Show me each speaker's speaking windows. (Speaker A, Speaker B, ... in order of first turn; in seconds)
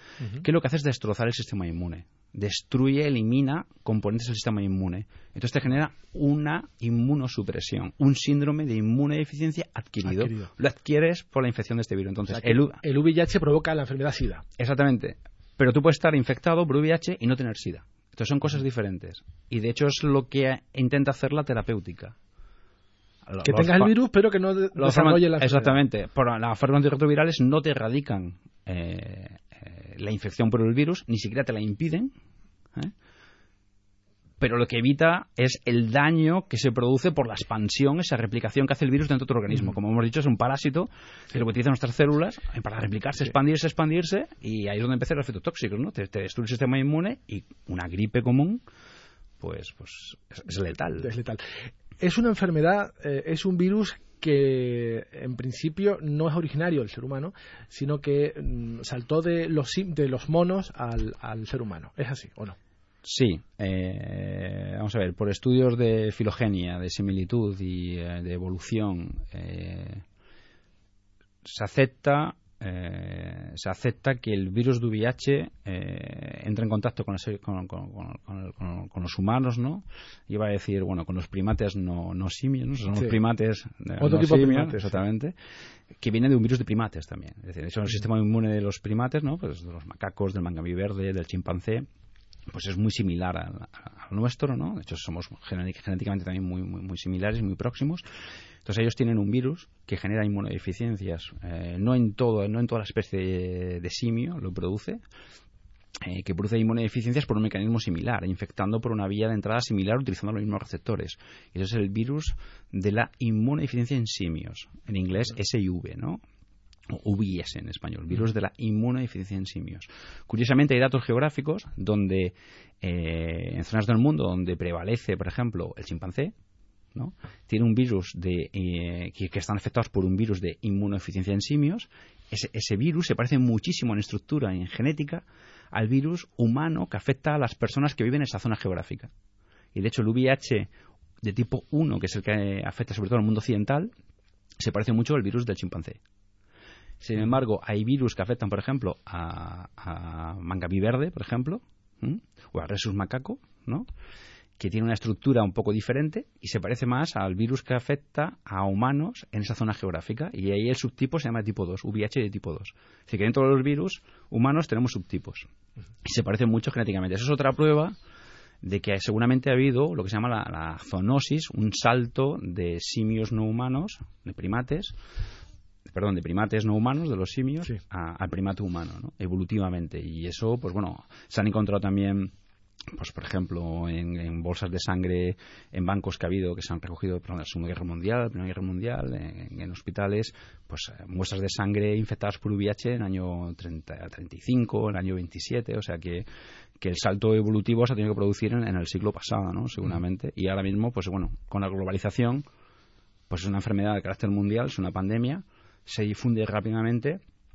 Speaker A: 0.4-12.8, 14.6-22.1, 23.2-23.9, 24.7-32.1, 34.4-48.6, 49.4-51.1, 63.0-70.0, 71.4-85.3, 86.0-91.9, 92.5-98.0, 98.6-105.0, 106.0-116.2, 116.9-126.3, 126.9-139.1, 139.7-140.7, 141.2-143.9, 144.6-146.0, 147.0-153.9, 154.6-165.5, 166.0-167.9, 168.6-175.0, 175.9-182.3, 182.9-196.3, 196.8-202.4, 203.3-207.2
Speaker B: 10.0-10.5, 12.3-14.4, 23.4-25.8, 51.0-51.4, 52.0-62.5, 84.0-85.0